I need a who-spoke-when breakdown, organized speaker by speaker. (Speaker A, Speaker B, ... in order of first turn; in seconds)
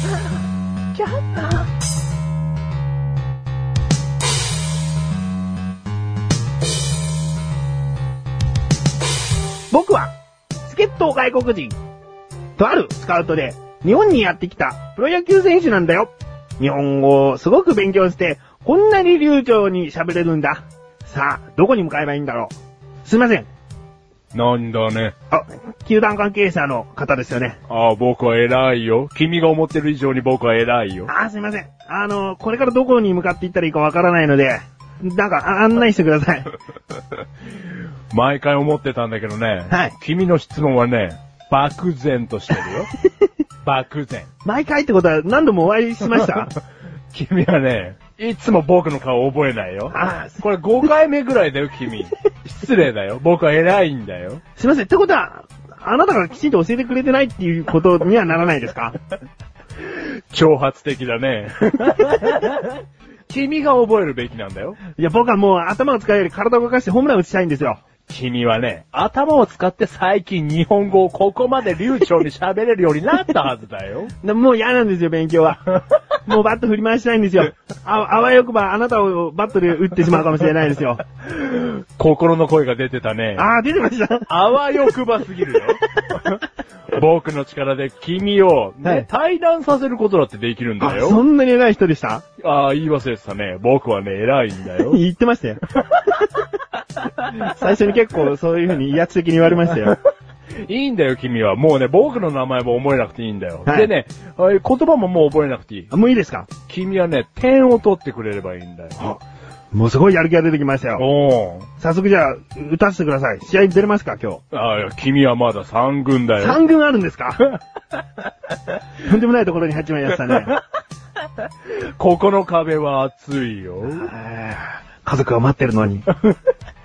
Speaker A: 0.9-1.6, 24.3-25.1, 27.7-31.1, 38.1-42.9, 43.6-44.3, 47.1-54.4, 59.9-64.8, 68.1-74.1, 81.2-83.4, 84.3-85.8, 86.9-91.2, 92.4-95.0, 100.6-105.9, 106.6-109.0, 111.0-111.7, 114.5-116.6, 121.6-124.1
Speaker B: 9.7-10.1, 10.6-11.8, 12.6-22.5, 23.0-23.5, 25.3-27.6, 31.1-36.5, 39.7-39.9, 44.4-46.5, 49.9-50.4, 54.6-59.0, 65.0-67.8, 74.2-81.0, 83.3-84.3, 88.8-89.1, 90.8-92.2, 94.8-95.6, 97.3-100.0, 103.7-103.9, 105.9-106.5, 109.7-111.0, 111.8-114.4, 116.4-117.5, 119.0-120.5, 123.8-126.1